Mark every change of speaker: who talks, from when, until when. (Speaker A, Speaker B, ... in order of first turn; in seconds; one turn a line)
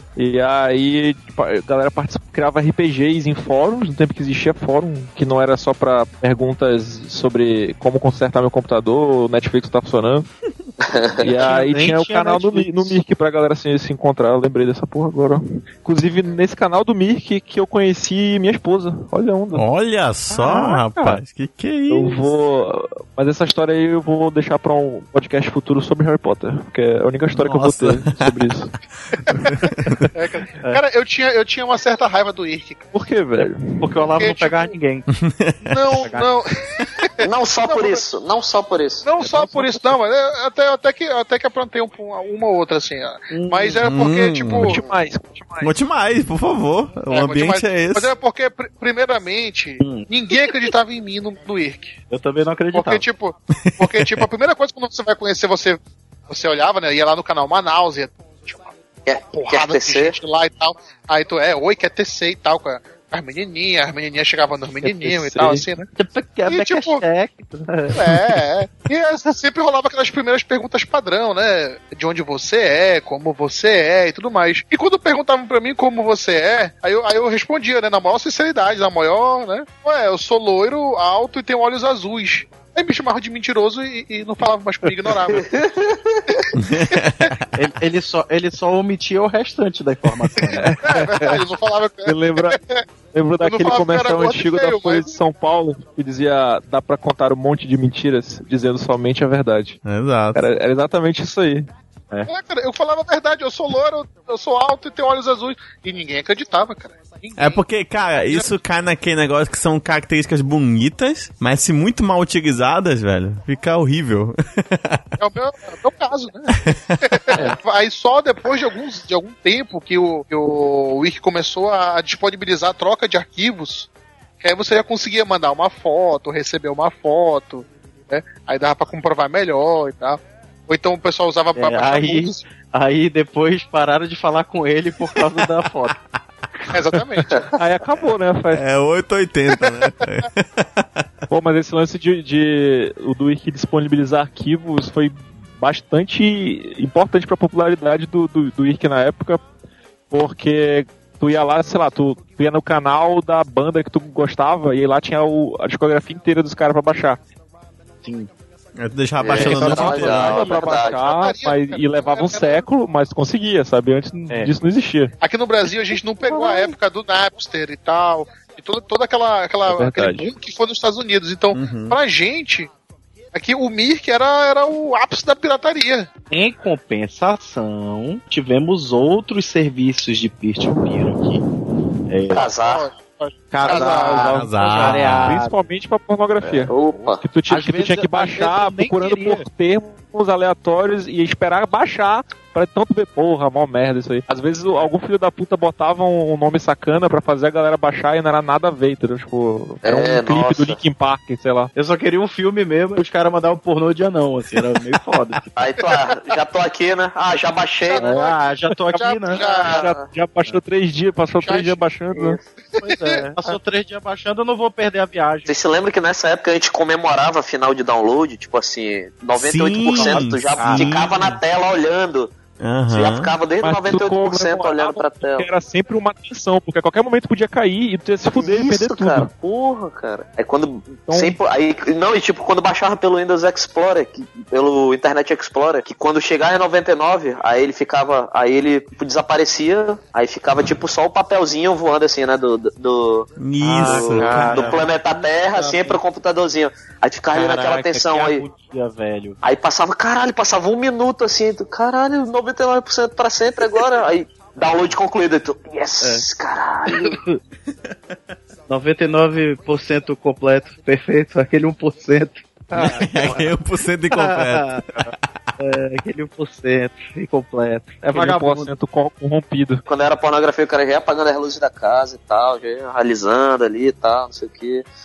Speaker A: 0.2-10.3
Speaker B: 10.8-11.3
Speaker A: 11.2-19.6
Speaker C: 11.3-13.0
Speaker D: 19.6-22.3
Speaker C: 20.3-21.2
Speaker A: 21.9-28.7
Speaker D: 27.4-28.3
Speaker D: 29.3-30.1
Speaker E: 30.1-32.9
Speaker A: 32.9-34.1
Speaker C: 33.8-35.1
Speaker E: 34.2-34.7
Speaker D: 35.1-36.1
Speaker E: 35.6-38.0
Speaker C: 36.0-36.3
Speaker B: 37.2-39.1
Speaker E: 39.0-44.9
Speaker A: 39.3-39.8
Speaker C: 43.3-43.8
Speaker D: 43.8-44.8
Speaker A: 44.6-45.7
Speaker D: 45.6-48.1
Speaker E: 47.1-52.0
Speaker C: 49.8-50.1
Speaker C: 52.1-53.0
Speaker E: 52.7-58.7
Speaker D: 53.7-54.3
Speaker B: 59.1-60.2
Speaker E: 59.2-65.9
Speaker A: 64.8-65.7
Speaker C: 66.0-68.0
Speaker E: 66.5-67.0
Speaker E: 67.9-85.6
Speaker B: 85.3-86.2
Speaker E: 86.3-87.3
Speaker D: 86.5-87.5
Speaker C: 87.6-90.7
Speaker E: 90.4-92.8
Speaker A: 90.5-91.4
Speaker A: 92.1-92.6
Speaker A: 93.1-99.8
Speaker E: 93.4-95.2
Speaker D: 99.8-100.4
Speaker A: 100.3-101.7
Speaker E: 102.3-107.6
Speaker D: 107.4-115.0
Speaker E: 108.2-108.5
Speaker E: 115.2-123.9
Speaker D: 116.6-117.3
Speaker E: 124.4-132.4
Speaker C: 131.6-136.0
Speaker E: 136.7-137.5
Speaker A: 137.5-138.6
Speaker D: 138.5-141.0
Speaker A: 141.3-149.4
Speaker A: 150.1-157.2
Speaker C: 158.0-158.3
Speaker D: 158.8-160.6
Speaker B: 159.2-161.0
Speaker A: 159.4-165.1
Speaker E: 160.6-162.7
Speaker E: 165.2-172.7
Speaker C: 166.3-166.7
Speaker A: 169.7-170.3
Speaker D: 171.5-172.0
Speaker E: 173.3-176.1
Speaker C: 176.3-181.4
Speaker C: 182.1-182.5
Speaker B: 182.3-182.9
Speaker E: 182.3-184.3
Speaker C: 183.5-185.6
Speaker A: 183.7-201.7
Speaker D: 184.2-185.4
Speaker B: 186.4-187.2
Speaker C: 187.5-189.4
Speaker B: 199.8-200.8
Speaker C: 201.8-205.5
Speaker B: 205.6-208.2
Speaker E: 207.8-208.4
Speaker C: 208.0-209.4
Speaker E: 208.9-209.9
Speaker B: 209.3-210.1
Speaker A: 209.6-212.4
Speaker E: 211.4-211.8
Speaker E: 212.8-213.2
Speaker C: 212.8-215.5
Speaker B: 215.5-222.3
Speaker D: 219.4-221.4
Speaker C: 219.9-221.0
Speaker D: 222.6-223.3
Speaker B: 222.9-225.5
Speaker A: 223.6-229.3
Speaker B: 228.3-248.4
Speaker A: 231.1-231.4
Speaker D: 243.4-244.7
Speaker C: 243.6-246.0
Speaker C: 247.3-249.4
Speaker B: 249.4-257.2
Speaker C: 256.9-257.4
Speaker C: 258.7-263.4
Speaker D: 262.8-265.1
Speaker C: 264.1-268.7
Speaker A: 268.1-269.8
Speaker B: 269.9-274.9